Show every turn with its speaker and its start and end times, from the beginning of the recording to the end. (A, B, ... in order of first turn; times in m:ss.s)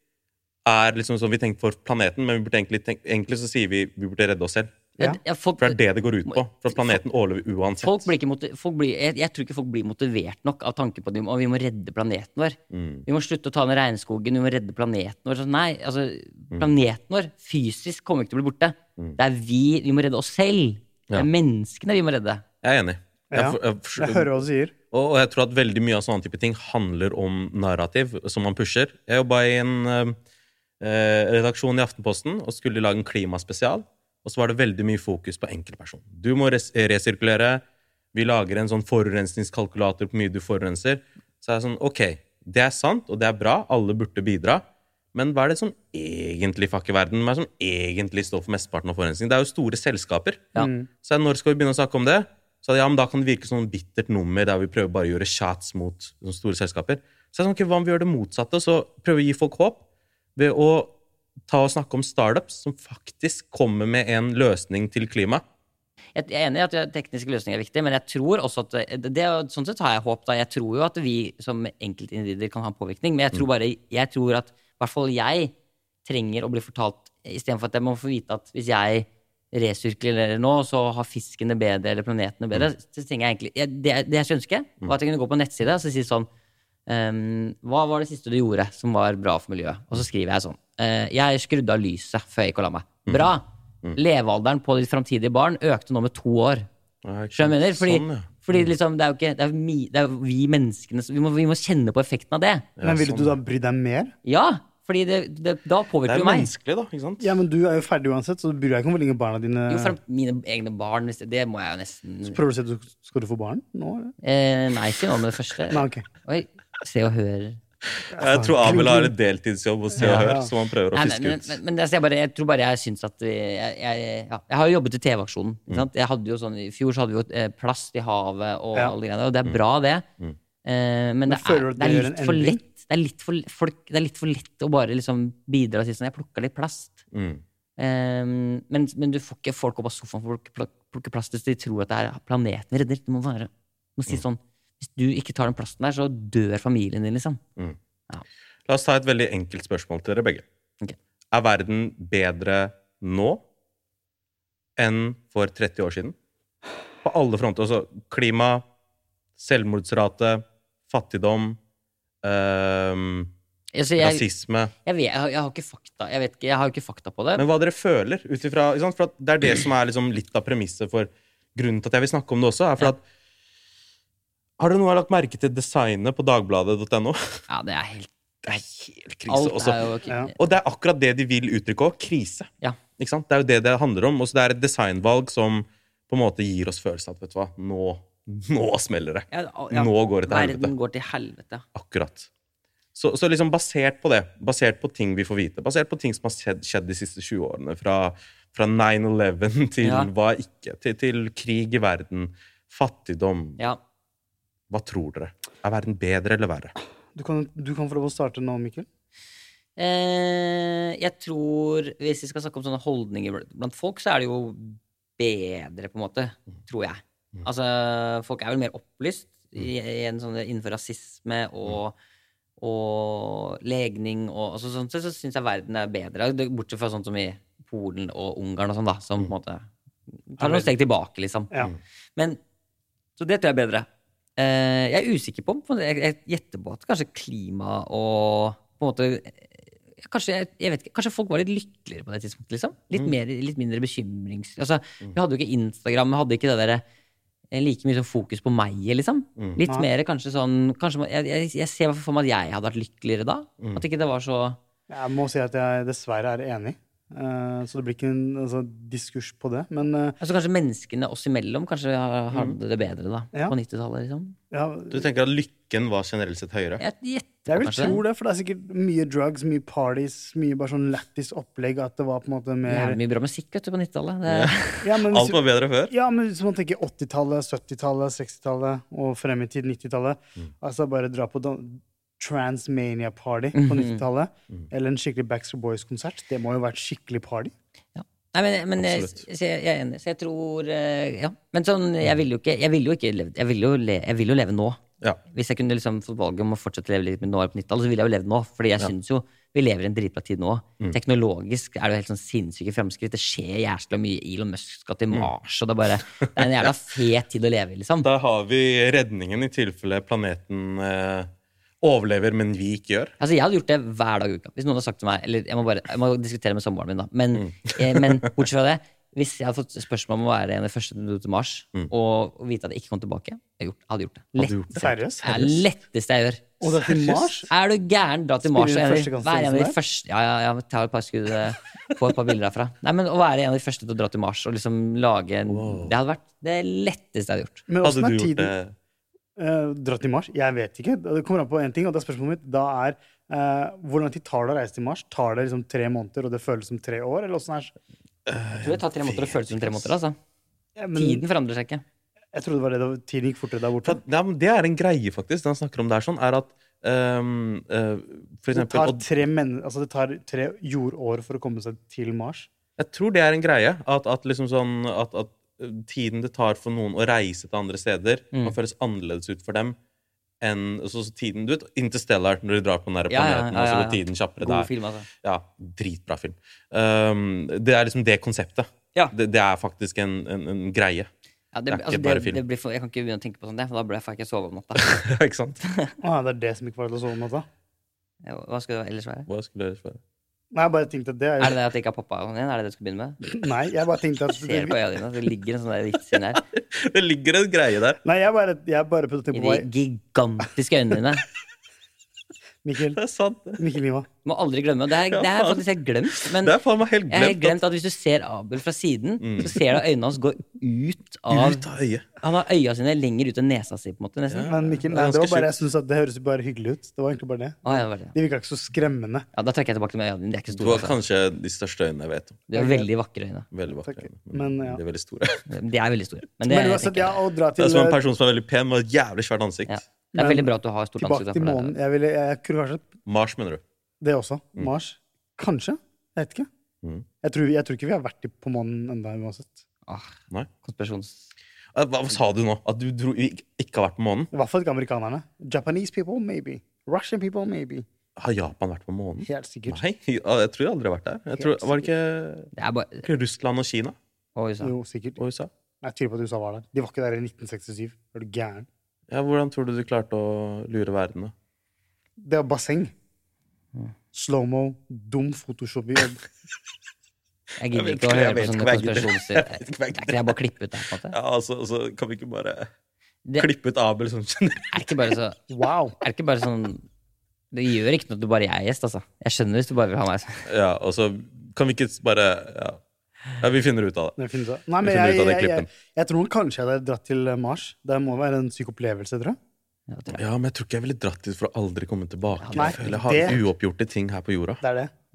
0:00.6-0:04.7 A
0:05.0-0:07.0 B
0:05.6-0:08.1 A
0:07.8-0:22.4 B
0:12.7-0:13.0 A
0:22.6-0:24.3 A
0:23.3-0:24.7 C
0:24.9-0:30.2 A
0:30.8-0:37.6 A
0:38.1-0:44.6 A
0:45.1-0:50.5 A
0:50.6-0:50.9 C
0:51.0-0:59.8 A
1:00.4-1:00.9 A
1:01.5-1:05.4 A
1:06.1-1:15.5 B
1:16.0-1:26.3 B
1:26.9-1:36.7 B
1:37.0-1:38.7 A
1:37.3-1:42.7 B
1:42.8-1:43.3 A
1:42.8-1:44.1 C
1:44.2-1:46.5 B
1:46.1-1:47.3 A
1:47.2-1:50.0 C
1:49.7-1:52.4 B
1:52.3-1:54.1 C
1:54.2-1:57.6 B
1:55.7-1:56.0 C
1:58.1-2:01.6 A
1:58.1-1:59.1 C
2:00.0-2:00.5 C
2:00.0-2:00.3 B
2:00.9-2:10.0 B
2:10.6-2:17.0 B
2:11.3-2:12.6 C
2:17.1-2:17.4 A
2:17.8-2:27.4 B
2:28.7-2:30.4 A
2:31.3-2:33.4 A
2:34.8-2:36.1 A
2:37.0-2:38.6 A
2:39.4-2:41.6 A
2:42.2-2:43.3 A
2:43.7-2:44.2 B
2:44.0-2:44.7 A
2:44.8-2:47.4 B
2:47.4-2:53.0 A
2:54.6-2:57.4 A
2:57.5-2:58.6 B
2:58.4-2:59.8 A
2:59.3-3:00.3 B
3:00.4-3:10.7 A
3:09.3-3:11.6 B
3:11.7-3:12.3 A
3:12.9-3:23.6 A
3:19.8-3:20.1 B
3:24.7-3:26.7 A
3:27.1-3:28.9 C
3:29.8-3:41.9 B
3:42.6-3:49.7 B
3:50.3-3:51.5 B
3:50.4-3:50.7 C
3:53.2-4:06.8 B
4:07.5-4:14.6 B
4:14.9-4:20.2 C
4:20.2-4:24.4 B
4:24.5-4:25.0 C
4:24.9-4:26.8 A
4:26.8-4:28.0 B
4:27.5-4:33.0 C
4:32.6-4:34.8 B
4:34.3-4:35.9 A
4:34.8-4:47.5 C
4:43.5-4:44.0 B
4:47.9-5:08.1 B
4:48.8-4:49.2 A
5:06.2-5:06.7 A
5:08.0-5:11.3 A
5:11.8-5:13.1 A
5:13.2-5:26.6 B
5:17.4-5:18.3 A
5:24.4-5:25.6 A
5:24.7-5:25.2 C
5:26.6-5:27.5 C
5:26.9-5:27.3 A
5:27.5-5:37.6 B
5:28.4-5:29.8 C
5:35.5-5:35.9 A
5:37.7-5:38.5 C
5:37.8-5:38.7 A
5:39.4-5:47.7 C
5:48.2-5:49.9 A
5:48.6-5:50.2 B
5:50.8-5:51.2 C
5:50.9-5:51.8 B
5:52.3-5:54.0 C
5:53.8-5:59.0 A
5:58.5-6:02.5 C
6:02.8-6:09.8 A
6:10.4-6:14.7 A
6:13.1-6:15.1 B
6:15.2-6:21.1 A
6:21.5-6:25.0 B
6:21.7-6:22.4 A
6:24.8-6:25.6 A
6:26.0-6:27.5 C
6:28.2-6:29.3 B
6:29.3-6:30.0 A
6:30.5-6:31.6 C
6:31.4-6:33.2 B
6:33.2-6:34.8 C
6:34.3-6:36.4 B
6:36.5-6:38.0 A
6:38.0-6:39.7 C
6:39.3-6:41.2 B
6:42.6-6:43.0 C
6:43.0-6:43.6 A
6:43.6-6:44.1 C
6:44.2-6:46.5 B
6:45.1-6:45.6 A
6:46.2-6:47.6 A
6:47.1-6:51.6 B
6:49.2-6:49.8 A
6:51.3-6:52.0 A
6:52.2-6:54.7 B
6:54.3-6:55.5 A
6:54.5-6:59.3 C
6:57.6-6:58.1 B
6:59.3-7:01.0 B
7:00.6-7:02.4 A
7:02.5-7:03.5 B
7:02.5-7:02.9 C
7:03.5-7:05.4 A
7:03.8-7:04.8 C
7:05.5-7:07.2 B
7:06.4-7:08.0 C
7:07.6-7:09.8 A
7:09.7-7:11.7 B
7:10.1-7:12.9 C
7:13.0-7:13.6 A
7:14.0-7:16.5 C
7:17.2-7:19.6 C
7:19.9-7:21.3 B
7:21.7-7:24.3 A
7:24.3-7:27.8 C
7:28.2-7:32.5 A
7:29.2-7:29.8 C
7:31.4-7:31.9 C
7:32.5-7:33.0 B
7:33.0-7:33.9 A
7:34.4-7:34.7 B
7:34.6-7:35.2 C
7:35.2-7:35.5 A
7:35.8-7:38.7 C
7:39.1-7:41.3 A
7:42.2-7:42.9 C
7:44.1-7:46.2 C
7:47.6-7:51.1 B
7:47.7-7:50.3 A
7:51.1-7:52.7 A
7:53.4-7:54.9 A
7:54.7-7:55.4 B
7:55.5-7:56.0 C
7:56.0-7:56.8 B
7:57.5-8:00.4 B
8:00.5-8:02.8 A
8:03.4-8:04.2 A
8:04.2-8:09.4 C
8:04.8-8:05.7 A
8:09.9-8:10.2 B
8:10.1-8:14.6 A
8:12.4-8:13.4 B
8:12.6-8:13.4 C
8:14.6-8:14.9 C